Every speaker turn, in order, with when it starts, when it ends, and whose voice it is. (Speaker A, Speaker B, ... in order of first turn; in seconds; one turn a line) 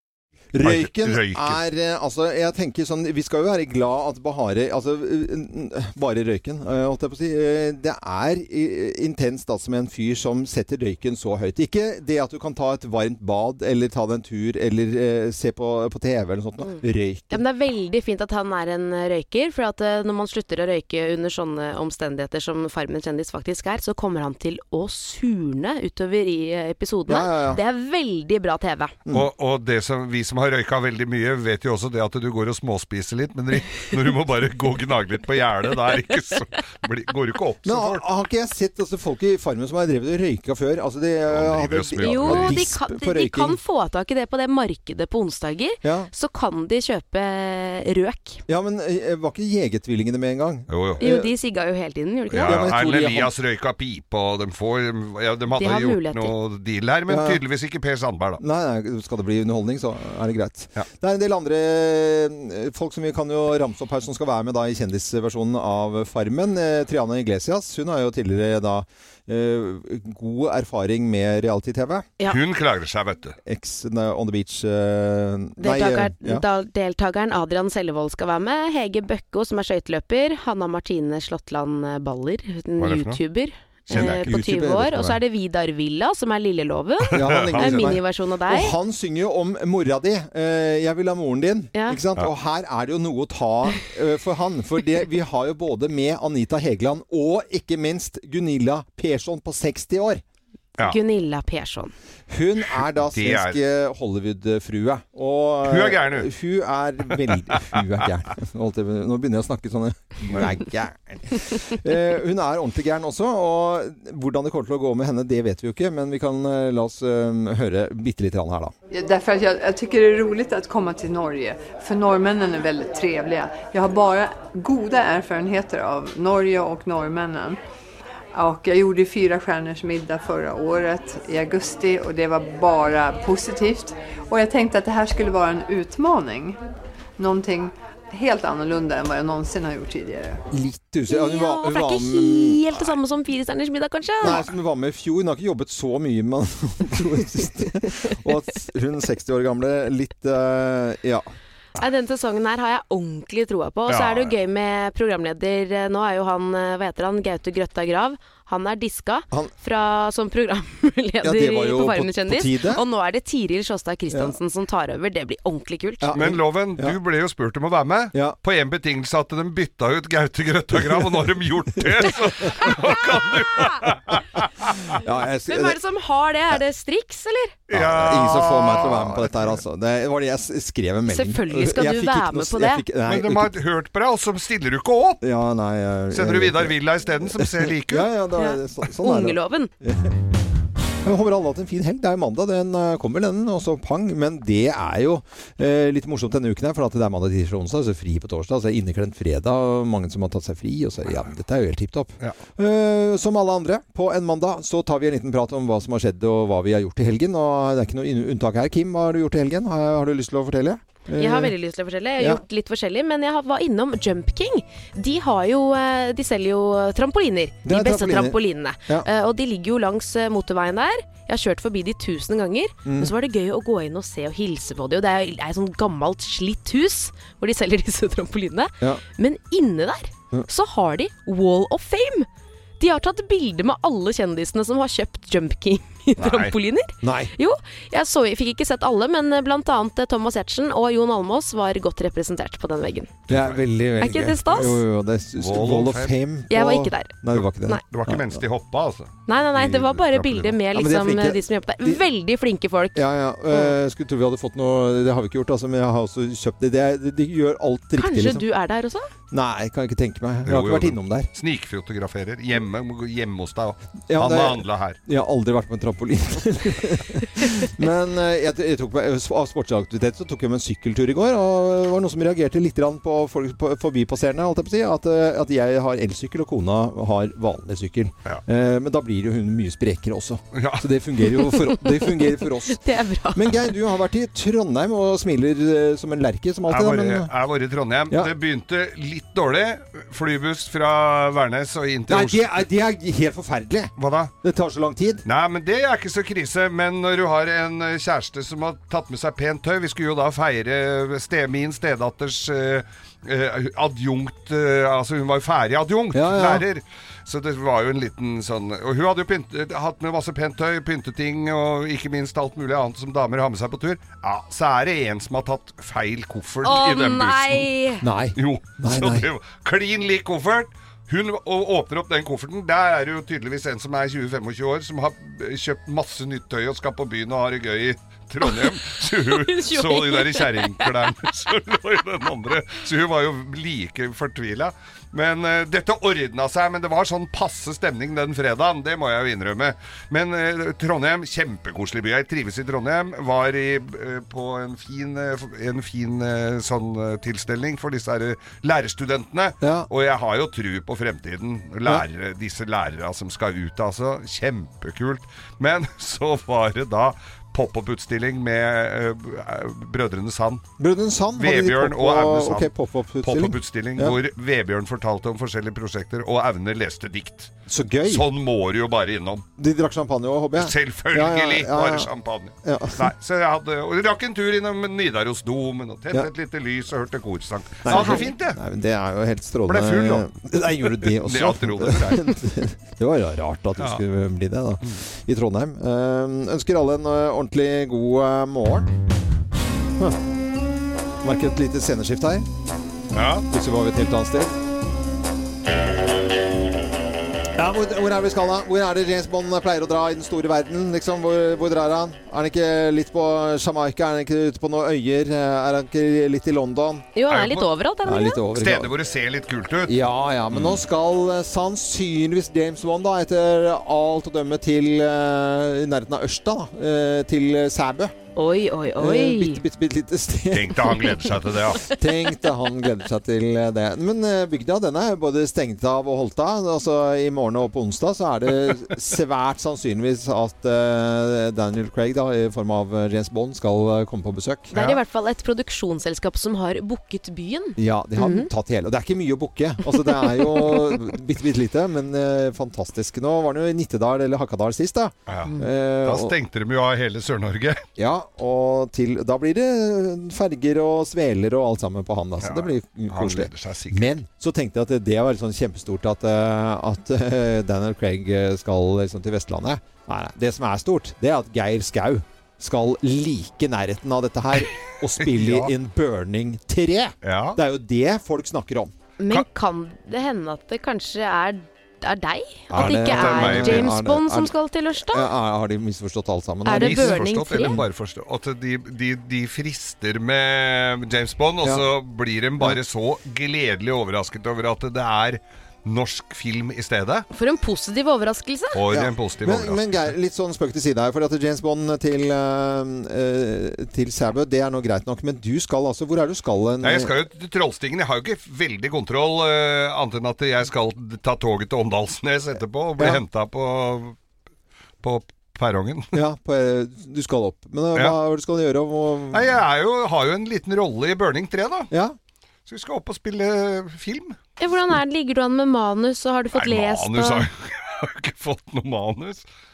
Speaker A: 0.6-17.4
Speaker B: 0.6-1.6
Speaker C: 16.6-29.0
Speaker A: 27.1-27.6
Speaker B: 29.1-38.0
Speaker A: 37.6-43.6
Speaker B: 41.3-42.6
Speaker C: 42.0-48.4
Speaker A: 45.8-46.1
Speaker A: 48.5-51.3
Speaker B: 50.7-51.0
Speaker C: 51.0-52.7
Speaker B: 52.3-58.4
Speaker A: 52.4-53.3
Speaker C: 55.6-56.3
Speaker A: 57.1-57.4
Speaker A: 58.4-72.1
Speaker B: 72.3-73.4
Speaker A: 73.5-76.5
Speaker C: 75.6-88.7
Speaker B: 82.8-83.2
Speaker B: 83.9-84.3
Speaker A: 83.9-85.2
Speaker A: 87.1-100.2
Speaker B: 87.1-88.0
Speaker C: 91.7-92.0
Speaker C: 100.8-101.9
Speaker A: 102.3-118.7
Speaker B: 103.1-103.6
Speaker B: 105.7-106.3
Speaker B: 110.3-110.5
Speaker D: 118.9-127.6
Speaker D: 128.3-136.6
Speaker D: 137.2-140.4
Speaker A: 140.5-142.8
Speaker C: 141.1-144.4
Speaker A: 144.2-151.3
Speaker C: 151.8-166.1
Speaker B: 153.9-154.3
Speaker A: 161.2-162.8
Speaker A: 166.0-167.0
Speaker B: 166.2-174.9
Speaker A: 171.8-172.1
Speaker A: 174.9-175.8
Speaker C: 175.5-177.6
Speaker B: 177.7-179.4
Speaker A: 177.7-183.5
Speaker C: 181.1-182.8
Speaker B: 183.1-185.2
Speaker A: 185.2-190.1
Speaker B: 186.1-188.1
Speaker C: 188.4-189.7
Speaker A: 191.0-211.5
Speaker C: 211.2-232.3
Speaker A: 217.7-219.1
Speaker A: 222.8-223.1
Speaker C: 232.8-243.1
Speaker B: 236.2-236.5
Speaker A: 237.0-237.3
Speaker B: 243.3-243.6
Speaker A: 243.3-248.4
Speaker C: 244.0-244.8
Speaker B: 245.4-246.1
Speaker C: 246.5-247.8
Speaker B: 247.8-250.6
Speaker C: 249.3-253.0
Speaker A: 250.7-252.0
Speaker A: 252.9-258.4
Speaker C: 258.0-259.1
Speaker A: 259.3-261.3
Speaker B: 260.5-265.0
Speaker A: 264.1-282.8
Speaker B: 280.6-280.9
Speaker C: 281.5-283.5
Speaker A: 283.3-287.3
Speaker B: 286.7-292.5
Speaker A: 292.1-295.2
Speaker B: 294.0-294.3
Speaker B: 295.3-317.7
Speaker A: 306.1-306.6
Speaker C: 316.6-318.0
Speaker A: 318.0-319.3
Speaker B: 318.4-360.6
Speaker C: 329.3-331.1
Speaker A: 349.6-349.9
Speaker A: 360.8-364.2
Speaker B: 361.4-362.7
Speaker B: 363.2-367.5
Speaker A: 367.7-368.3
Speaker B: 368.1-369.4
Speaker A: 369.6-372.1
Speaker B: 370.6-378.6
Speaker A: 372.6-373.1
Speaker A: 377.8-388.9
Speaker B: 379.7-380.3
Speaker B: 380.9-382.3
Speaker A: 391.2-392.5
Speaker B: 393.1-393.5
Speaker A: 393.5-394.5
Speaker A: 397.6-407.1
Speaker C: 407.1-408.4
Speaker B: 407.3-407.7
Speaker A: 408.1-408.9
Speaker B: 408.5-409.9
Speaker A: 409.9-418.1
Speaker B: 410.5-410.8
Speaker C: 418.4-419.6
Speaker A: 419.0-421.3
Speaker B: 420.5-421.9
Speaker A: 421.9-434.7
Speaker C: 434.7-438.5
Speaker B: 434.7-435.0
Speaker A: 437.8-446.3
Speaker C: 440.1-441.0
Speaker B: 445.3-447.8
Speaker A: 448.0-468.9
Speaker B: 452.4-454.1
Speaker B: 465.2-465.7
Speaker B: 467.2-467.6
Speaker C: 469.2-475.3
Speaker A: 472.7-474.5
Speaker B: 472.7-473.9
Speaker A: 475.1-477.9
Speaker C: 476.6-477.8
Speaker B: 476.7-487.2
Speaker C: 487.3-488.8
Speaker B: 488.7-490.0
Speaker A: 488.9-497.1
Speaker B: 496.8-504.1
Speaker B: 505.0-506.1
Speaker A: 506.1-509.6
Speaker B: 509.3-511.9
Speaker B: 512.7-514.4
Speaker C: 514.6-517.5
Speaker B: 516.5-519.5